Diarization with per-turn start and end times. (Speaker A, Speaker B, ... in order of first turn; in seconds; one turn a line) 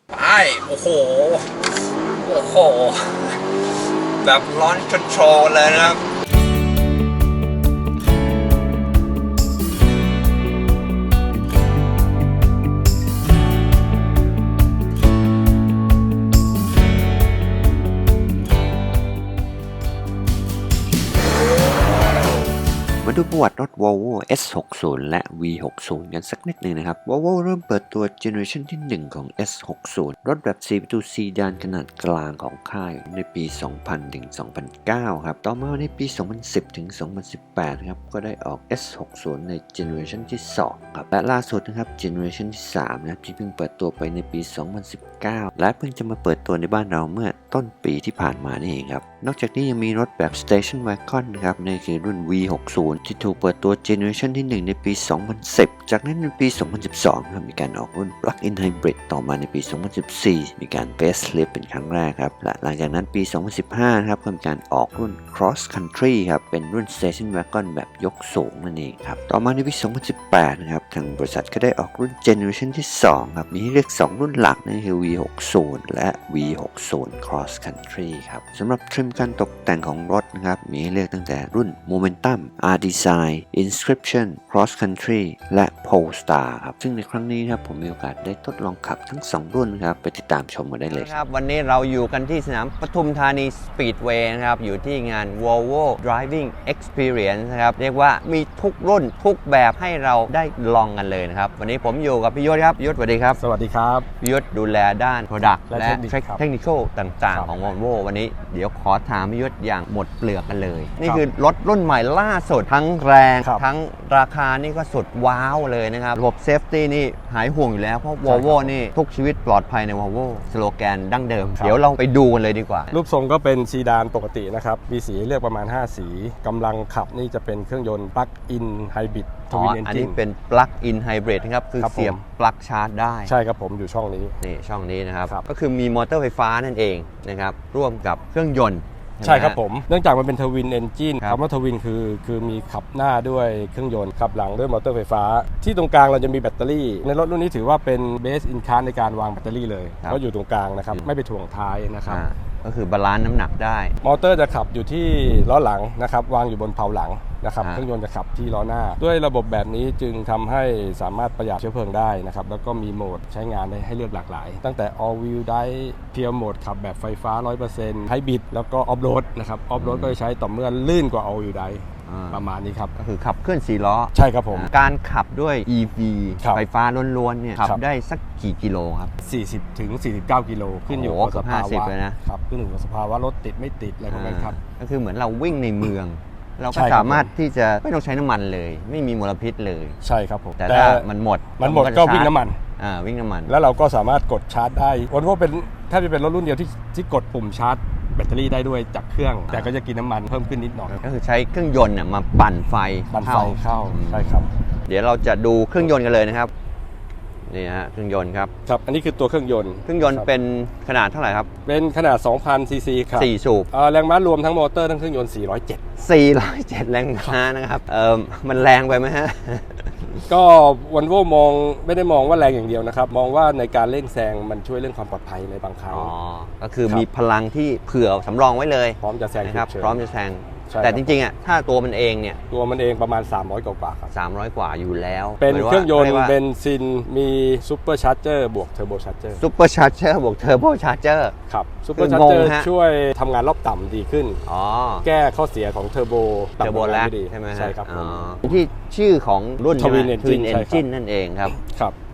Speaker A: 0.1-3.5
Speaker A: 4.2-6.0
Speaker B: 23.0-91.1
Speaker A: 90.9-103.4
Speaker C: 103.4-104.1
Speaker A: 104.2-123.0
Speaker C: 105.7-106.4
Speaker C: 107.3-107.6
Speaker C: 118.2-118.7
Speaker C: 122.9-130.2
Speaker A: 129.5-133.3
Speaker C: 131.8-132.2
Speaker C: 133.2-134.4
Speaker A: 134.4-139.6
Speaker C: 139.2-152.2
Speaker A: 152.1-153.9
Speaker C: 154.0-172.9
Speaker A: 157.6-157.9
Speaker A: 169.8-170.2
Speaker A: 172.1-172.4
Speaker A: 172.9-179.1
Speaker C: 174.1-174.7
Speaker C: 179.2-184.6
Speaker A: 180.9-182.2
Speaker A: 184.1-190.0
Speaker C: 186.7-187.3
Speaker C: 190.0-191.1
Speaker A: 190.6-193.5
Speaker C: 191.6-192.6
Speaker C: 193.5-201.0
Speaker A: 201.0-204.3
Speaker C: 203.1-204.5
Speaker A: 204.9-206.5
Speaker A: 207.5-208.5
Speaker C: 208.7-210.3
Speaker A: 209.9-211.5
Speaker C: 211.7-215.8
Speaker A: 213.2-213.7
Speaker A: 216.0-220.2
Speaker C: 220.3-226.1
Speaker A: 225.9-232.4
Speaker C: 229.0-230.0
Speaker C: 230.7-231.1
Speaker C: 232.5-234.1
Speaker A: 234.1-236.3
Speaker C: 235.4-239.4
Speaker A: 239.4-241.3
Speaker C: 241.5-244.4
Speaker A: 241.9-242.7
Speaker A: 244.4-245.1
Speaker C: 245.0-248.2
Speaker A: 246.6-251.5
Speaker C: 249.8-250.8
Speaker C: 251.5-251.9